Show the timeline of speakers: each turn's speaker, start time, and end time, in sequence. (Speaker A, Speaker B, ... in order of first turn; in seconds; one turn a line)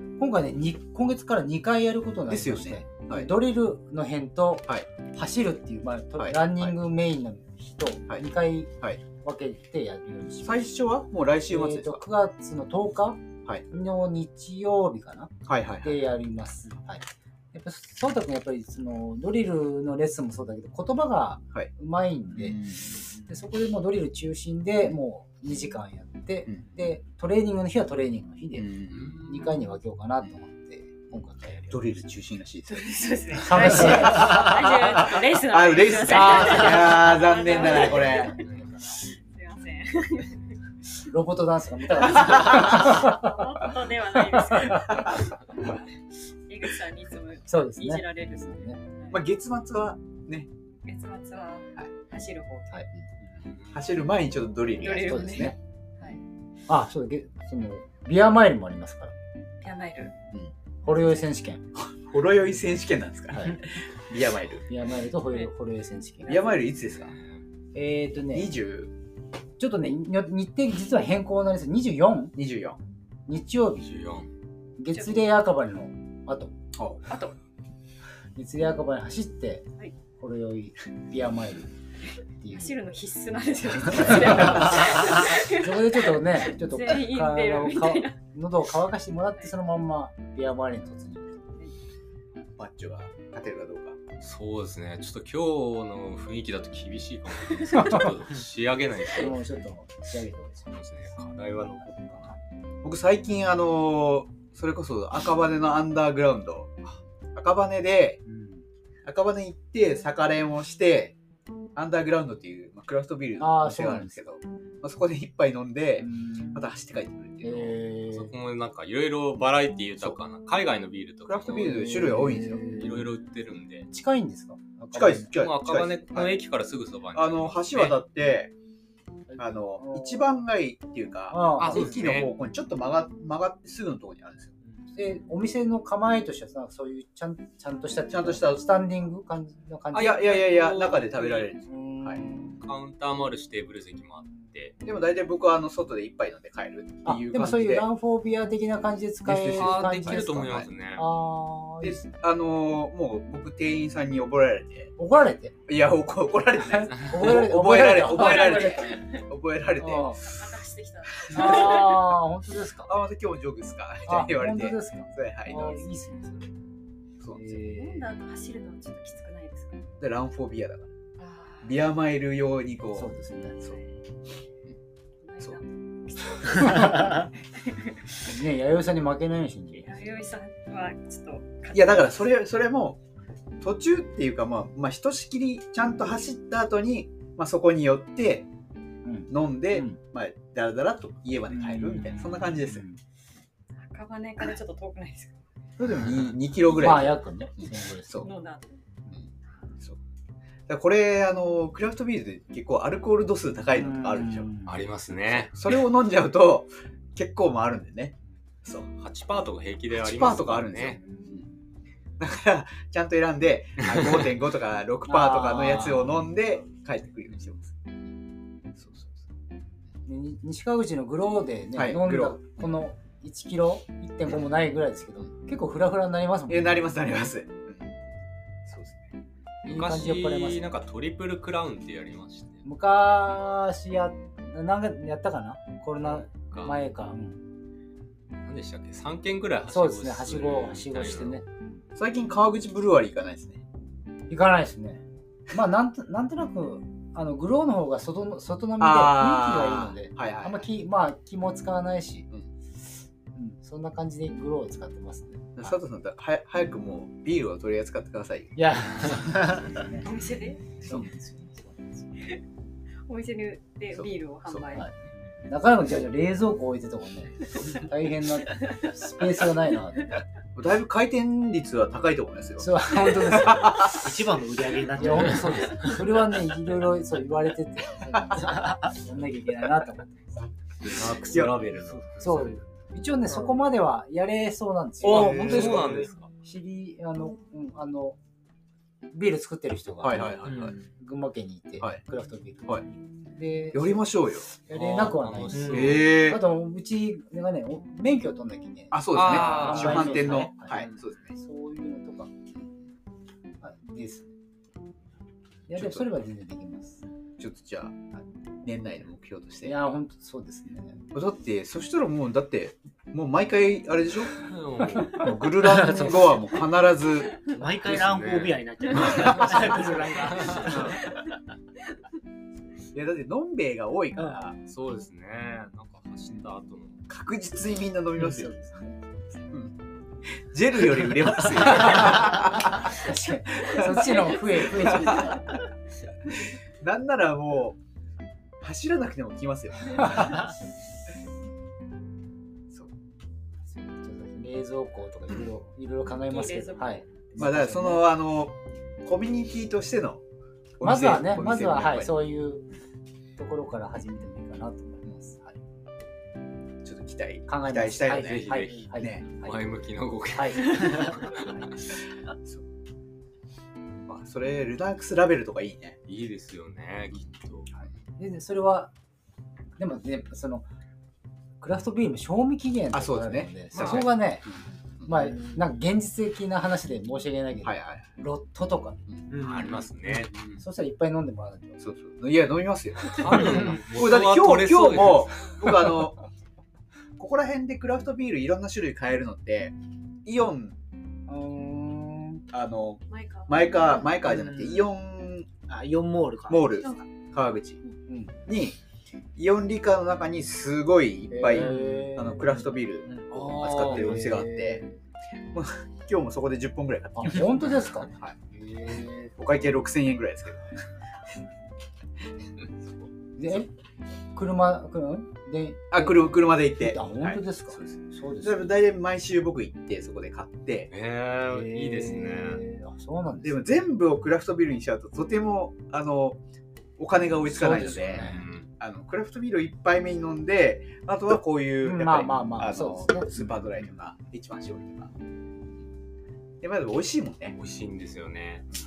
Speaker A: 0.2-10.7
Speaker B: 2.3-3.4
Speaker B: 6.2-6.7
Speaker B: 10.4-12.0
Speaker A: 11.5-31.8
Speaker B: 15.4-16.0
Speaker B: 22.4-23.1
Speaker B: 26.5-26.9
Speaker B: 28.5-29.1
Speaker C: 28.9-29.7
Speaker B: 31.1-34.0
Speaker D: 32.7-40.5
Speaker A: 33.4-34.5
Speaker B: 35.2-38.3
Speaker A: 36.1-36.9
Speaker C: 37.8-38.6
Speaker A: 41.0-43.3
Speaker D: 41.9-49.2
Speaker A: 44.3-45.0
Speaker A: 47.5-48.8
Speaker B: 49.1-50.5
Speaker D: 50.8-52.8
Speaker C: 53.3-53.8
Speaker B: 53.7-55.5
Speaker D: 54.8-56.2
Speaker A: 55.0-55.6
Speaker A: 56.7-59.1
Speaker D: 59.6-60.1
Speaker A: 60.8-61.6
Speaker B: 61.8-64.7
Speaker A: 64.7-66.5
Speaker B: 66.3-67.2
Speaker A: 67.7-68.5
Speaker B: 68.3-68.9
Speaker A: 69.6-72.3
Speaker B: 72.3-72.8
Speaker A: 73.3-73.9
Speaker C: 73.8-74.3
Speaker A: 74.8-76.5
Speaker B: 76.7-77.0
Speaker D: 77.1-77.3
Speaker A: 78.3-79.7
Speaker A: 80.2-81.7
Speaker A: 82.4-82.8
Speaker D: 82.5-88.2
Speaker A: 84.1-84.5
Speaker A: 85.3-91.3
Speaker B: 92.5-94.0
Speaker C: 94.2-99.4
Speaker A: 99.1-100.7
Speaker C: 100.7-102.3
Speaker B: 102.8-106.7
Speaker B: 107.3-108.2
Speaker A: 108.2-108.6
Speaker B: 109.0-111.2
Speaker B: 111.8-117.8
Speaker A: 113.4-114.2
Speaker A: 116.0-116.6
Speaker A: 117.4-118.3
Speaker C: 118.1-121.9
Speaker B: 121.3-122.6
Speaker A: 121.6-123.1
Speaker C: 122.7-123.9
Speaker A: 123.9-125.3
Speaker B: 124.9-126.3
Speaker C: 125.3-128.0
Speaker B: 127.1-128.5
Speaker A: 129.3-130.3
Speaker B: 129.4-134.5
Speaker A: 131.3-132.2
Speaker C: 131.6-132.3
Speaker A: 134.9-140.8
Speaker B: 138.1-138.6
Speaker C: 139.9-141.5
Speaker B: 139.9-142.2
Speaker A: 141.7-142.6
Speaker C: 142.6-144.7
Speaker B: 144.8-147.8
Speaker A: 147.0-152.1
Speaker C: 149.3-151.1
Speaker B: 149.4-150.1
Speaker B: 151.8-154.9
Speaker A: 155.0-155.5
Speaker B: 155.7-160.3
Speaker A: 156.7-159.0
Speaker D: 158.1-159.2
Speaker A: 159.8-160.2
Speaker D: 160.2-162.1
Speaker B: 161.3-161.6
Speaker A: 161.3-162.9
Speaker B: 162.8-165.9
Speaker A: 164.1-166.5
Speaker B: 167.2-167.4
Speaker A: 167.3-168.0
Speaker D: 167.6-169.8
Speaker B: 170.0-170.9
Speaker D: 171.2-171.8
Speaker B: 171.6-173.8
Speaker A: 172.9-173.6
Speaker D: 175.2-178.3
Speaker A: 178.2-180.0
Speaker D: 179.7-182.1
Speaker B: 181.7-183.0
Speaker B: 183.6-188.5
Speaker A: 189.0-190.0
Speaker B: 189.3-192.8
Speaker A: 191.5-193.0
Speaker D: 193.8-195.4
Speaker B: 195.8-198.3
Speaker A: 196.7-198.3
Speaker D: 198.2-198.8
Speaker B: 200.7-204.5
Speaker A: 203.7-204.8
Speaker C: 204.7-205.5
Speaker B: 205.4-208.9
Speaker C: 208.9-211.0
Speaker B: 209.9-211.4
Speaker A: 211.1-211.5
Speaker B: 212.2-217.9
Speaker A: 215.1-215.8
Speaker B: 218.8-219.2
Speaker A: 220.1-226.8
Speaker B: 221.7-222.5
Speaker B: 226.5-227.9
Speaker B: 228.7-229.1
Speaker C: 229.6-232.6
Speaker A: 229.7-230.7
Speaker A: 232.6-237.4
Speaker C: 236.0-236.8
Speaker C: 238.4-241.4
Speaker A: 239.7-241.8
Speaker B: 241.9-243.6
Speaker A: 244.3-252.3
Speaker B: 248.8-250.7
Speaker A: 253.3-255.8
Speaker B: 255.6-258.6
Speaker A: 258.6-260.1
Speaker D: 260.0-260.7
Speaker A: 260.8-262.1
Speaker D: 263.1-264.9
Speaker B: 263.9-264.6
Speaker A: 265.4-270.2
Speaker B: 270.6-274.1
Speaker A: 272.6-274.1
Speaker E: 274.0-275.9
Speaker A: 274.9-280.5
Speaker B: 278.3-278.6
Speaker C: 280.8-282.5
Speaker B: 281.3-281.6
Speaker A: 282.2-285.8
Speaker B: 285.0-286.1
Speaker C: 285.0-286.3
Speaker A: 286.4-288.2
Speaker A: 289.1-302.3
Speaker B: 290.0-290.8
Speaker E: 290.4-290.8
Speaker B: 293.7-294.5
Speaker C: 294.7-296.0
Speaker E: 295.5-295.9
Speaker B: 295.7-296.4
Speaker B: 298.9-301.4
Speaker C: 299.1-300.9
Speaker A: 303.6-304.3
Speaker A: 305.7-307.0
Speaker B: 305.7-306.1
Speaker B: 307.4-308.0
Speaker B: 308.6-309.7
Speaker A: 309.6-311.0
Speaker B: 311.1-314.4
Speaker C: 314.4-315.3
Speaker B: 315.1-317.5
Speaker E: 315.6-316.2
Speaker E: 317.5-321.0
Speaker C: 317.5-318.7
Speaker D: 318.9-319.9
Speaker A: 319.4-319.8
Speaker C: 320.2-320.7
Speaker B: 320.4-321.0
Speaker D: 320.8-321.4
Speaker B: 322.9-324.6
Speaker C: 324.6-327.0
Speaker B: 327.1-328.5
Speaker A: 328.3-329.0
Speaker B: 330.3-335.4
Speaker A: 332.8-335.6
Speaker B: 336.3-337.8
Speaker B: 338.6-340.5
Speaker A: 340.0-340.5
Speaker A: 343.6-348.1
Speaker D: 346.1-347.1
Speaker B: 347.4-350.2
Speaker B: 350.8-352.1
Speaker A: 350.8-352.6
Speaker A: 353.4-355.6
Speaker B: 356.8-359.2
Speaker A: 357.5-359.6
Speaker C: 358.1-361.9
Speaker A: 360.3-360.9
Speaker B: 364.1-366.0
Speaker C: 366.1-367.9
Speaker A: 368.2-368.9
Speaker A: 369.8-370.6
Speaker A: 371.6-374.4
Speaker B: 372.9-374.1
Speaker C: 373.7-374.1
Speaker B: 375.0-375.3
Speaker A: 375.0-379.0
Speaker B: 377.6-378.1
Speaker E: 379.3-380.0
Speaker C: 379.3-380.5
Speaker A: 380.6-381.8
Speaker B: 381.8-386.2
Speaker C: 383.0-385.5
Speaker B: 387.2-389.7
Speaker B: 390.2-390.8
Speaker A: 391.3-392.4
Speaker B: 392.5-395.7
Speaker D: 393.1-394.2
Speaker E: 394.4-394.7
Speaker E: 395.7-396.6
Speaker B: 396.5-397.8
Speaker A: 398.1-398.4
Speaker B: 398.5-398.8
Speaker B: 399.4-404.8
Speaker A: 401.3-405.0
Speaker C: 401.6-401.9
Speaker C: 403.3-404.2
Speaker B: 405.5-408.4
Speaker A: 407.2-409.3
Speaker B: 409.4-410.7
Speaker A: 413.4-413.7
Speaker A: 414.3-418.7
Speaker B: 415.9-420.9
Speaker C: 420.9-422.6
Speaker A: 421.5-423.7
Speaker B: 423.4-426.4
Speaker B: 427.0-435.1
Speaker A: 427.4-428.4
Speaker C: 427.7-428.7
Speaker A: 431.8-433.5
Speaker B: 436.6-437.6
Speaker C: 437.5-438.7